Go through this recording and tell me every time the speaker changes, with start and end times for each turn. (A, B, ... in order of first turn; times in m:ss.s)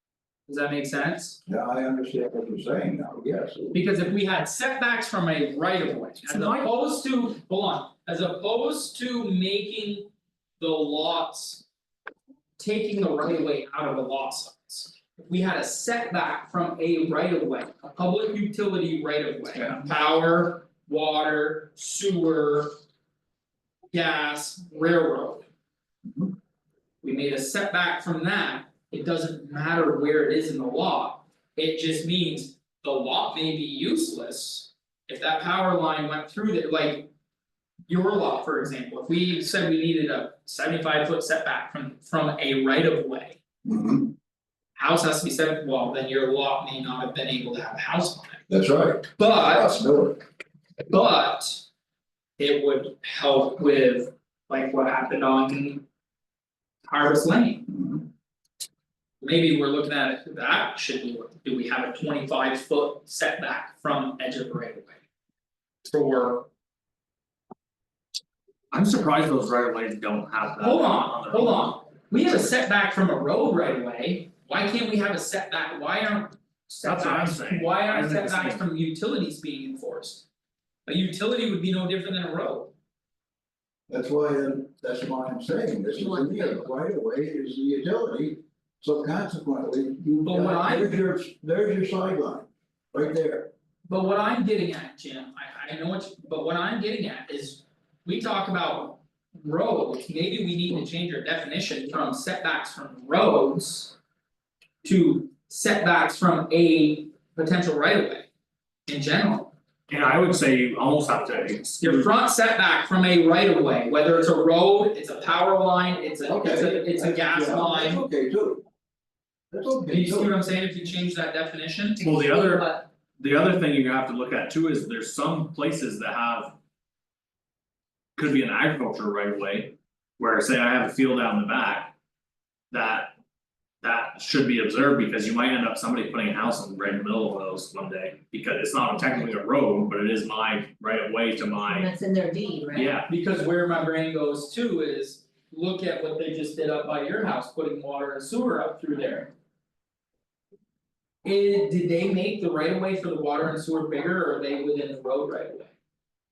0:00.5-0:01.4 A
0:01.5-0:03.7 B
0:03.7-0:11.6 A
0:12.6-0:22.7 A
0:23.9-0:25.4 A
0:27.0-0:37.1 A
0:37.9-0:43.4 A
0:43.6-0:44.1 B
0:44.8-0:48.4 A
0:48.5-0:50.3 B
0:49.2-0:49.8 A
0:50.9-0:51.6 A
0:52.4-0:55.8 A
0:56.9-0:57.7 A
0:57.7-0:58.0 B
0:59.2-1:05.0 A
1:05.8-1:06.5 A
1:08.7-1:11.7 C
1:10.6-1:20.2 A
1:16.8-1:18.6 C
1:20.8-1:22.7 A
1:23.9-1:33.5 B
1:25.9-1:26.6 D
1:30.2-1:31.0 A
1:33.9-1:43.9 A
1:44.8-1:48.3 A
1:48.9-1:49.5 A
1:49.9-1:52.1 C
1:51.8-1:58.0 A
1:56.2-1:58.6 B
1:59.5-2:00.3 B
1:59.9-2:02.0 A
2:02.0-2:02.8 D
2:02.0-2:06.6 C
2:08.2-2:11.9 C
2:12.7-2:13.1 C
2:13.8-2:21.9 C
2:21.7-2:22.9 D
2:22.7-2:23.1 C
2:23.0-2:29.3 A
2:31.2-2:35.7 A